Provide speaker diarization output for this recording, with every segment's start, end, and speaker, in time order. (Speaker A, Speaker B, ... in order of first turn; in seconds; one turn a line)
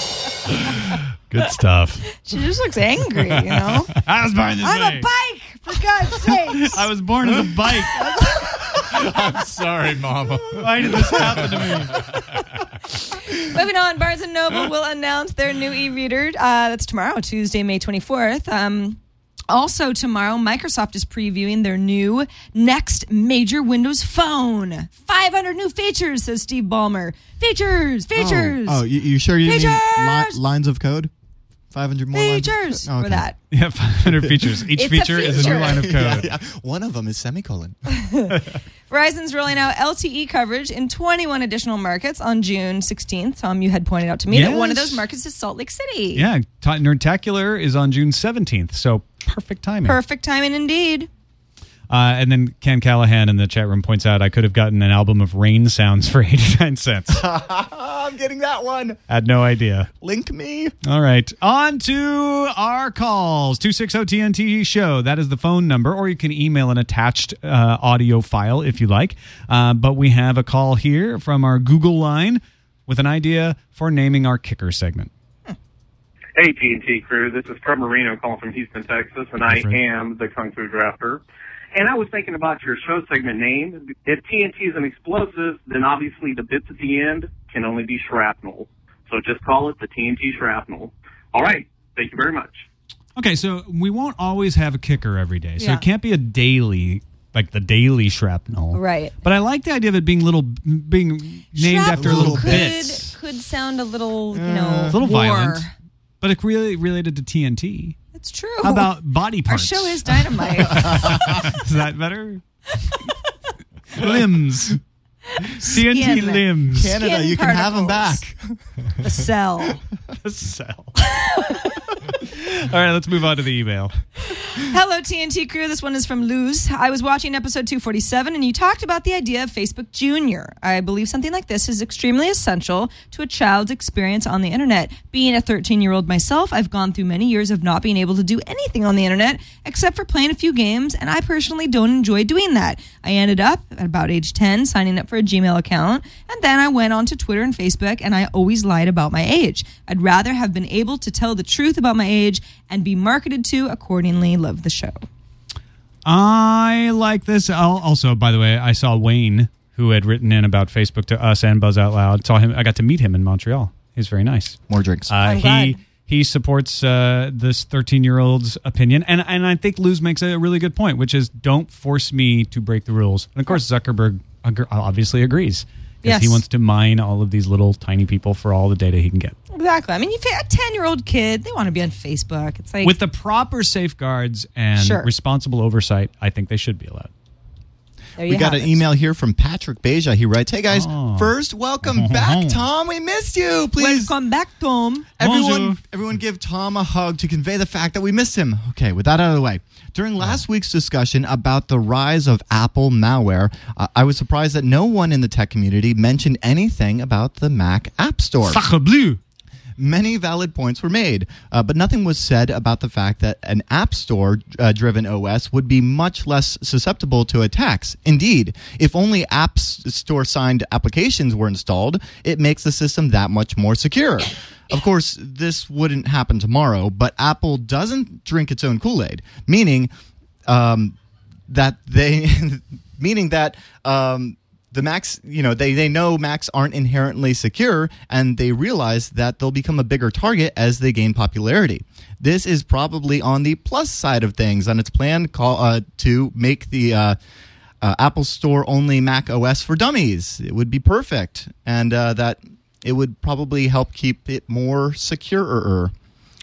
Speaker A: 0.6-2.0
Speaker B: 2.1-3.9
Speaker A: 3.2-3.8
Speaker C: 4.0-5.1
Speaker B: 4.6-6.9
Speaker C: 6.3-8.3
Speaker B: 8.2-8.4
Speaker A: 8.6-12.3
Speaker C: 10.5-12.0
Speaker B: 13.1-28.8
Speaker D: 28.1-31.1
Speaker B: 29.4-30.4
Speaker D: 31.7-33.3
Speaker B: 32.1-33.4
Speaker C: 33.5-36.3
Speaker B: 34.8-35.9
Speaker D: 35.3-37.8
Speaker B: 37.9-38.4
Speaker B: 38.9-46.3
Speaker C: 44.3-45.0
Speaker C: 46.1-50.0
Speaker B: 49.8-51.1
Speaker C: 51.9-57.2
Speaker D: 57.1-59.0
Speaker C: 59.1-59.9
Speaker D: 60.0-60.7
Speaker C: 60.8-75.1
Speaker E: 76.3-81.2
Speaker C: 79.4-79.8
Speaker E: 81.7-92.6
Speaker C: 93.2-103.1
Speaker B: 95.6-95.8
Speaker B: 98.7-99.2
Speaker B: 101.5-105.7
Speaker D: 101.9-102.7
Speaker D: 104.3-105.0
Speaker C: 104.9-105.7
Speaker C: 106.2-108.0
Speaker B: 108.1-108.9
Speaker C: 108.6-112.4
Speaker B: 109.5-111.4
Speaker C: 113.9-114.8
Speaker B: 115.3-118.2
Speaker C: 115.4-116.9
Speaker D: 116.7-118.6
Speaker B: 119.0-119.8
Speaker C: 120.2-121.0
Speaker B: 121.0-121.9
Speaker C: 122.2-123.9
Speaker B: 124.2-155.0
Speaker C: 156.1-164.6
Speaker D: 164.7-165.1
Speaker C: 165.1-179.3
Speaker B: 165.2-165.8
Speaker B: 176.0-176.4
Speaker B: 179.5-182.9
Speaker C: 182.8-187.1
Speaker B: 184.8-185.1
Speaker B: 188.2-188.8
Speaker D: 188.2-194.1
Speaker C: 190.7-192.6
Speaker B: 193.8-195.1
Speaker D: 195.2-208.6
Speaker C: 195.2-195.8
Speaker C: 208.4-209.2
Speaker D: 209.8-229.9
Speaker D: 230.4-230.9
Speaker D: 231.5-247.2
Speaker D: 247.8-255.9